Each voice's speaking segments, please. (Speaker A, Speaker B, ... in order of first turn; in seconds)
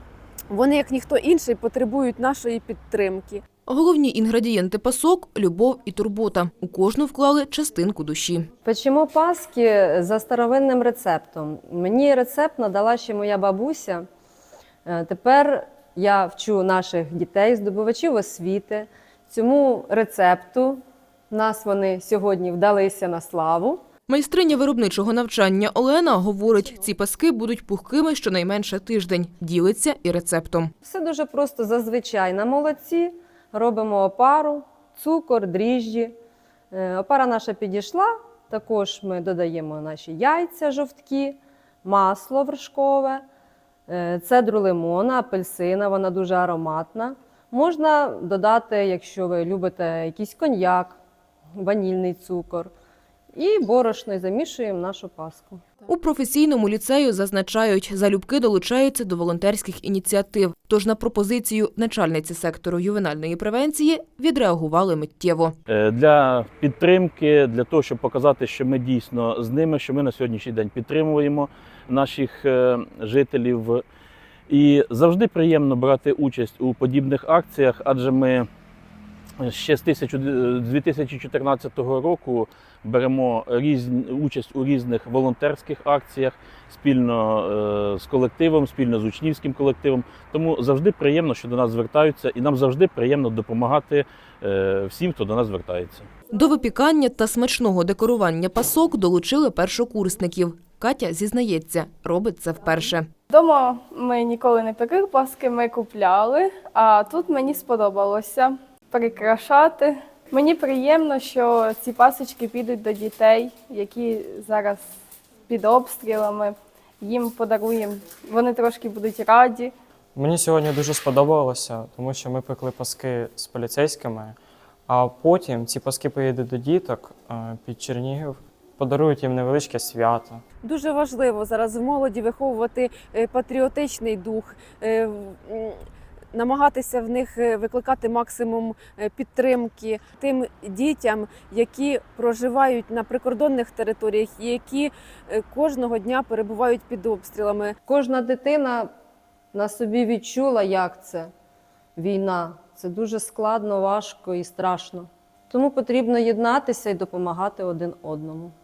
Speaker A: 0.5-3.4, 130.6-135.8, 136.3-147.7
Speaker B: 3.7-8.5, 24.1-30.7, 55.9-65.5, 96.3-103.1
Speaker C: 8.7-14.1, 14.9-23.8, 30.8-36.1, 36.7-43.2, 43.9-51.0, 51.6-52.7, 53.3-55.6, 147.9-148.9, 149.5-151.3, 152.0-158.5
Speaker D: 65.7-73.8, 74.5-78.5, 79.4-96.1
Speaker E: 103.3-114.8, 115.5-119.7
Speaker F: 120.2-124.4, 124.9-130.4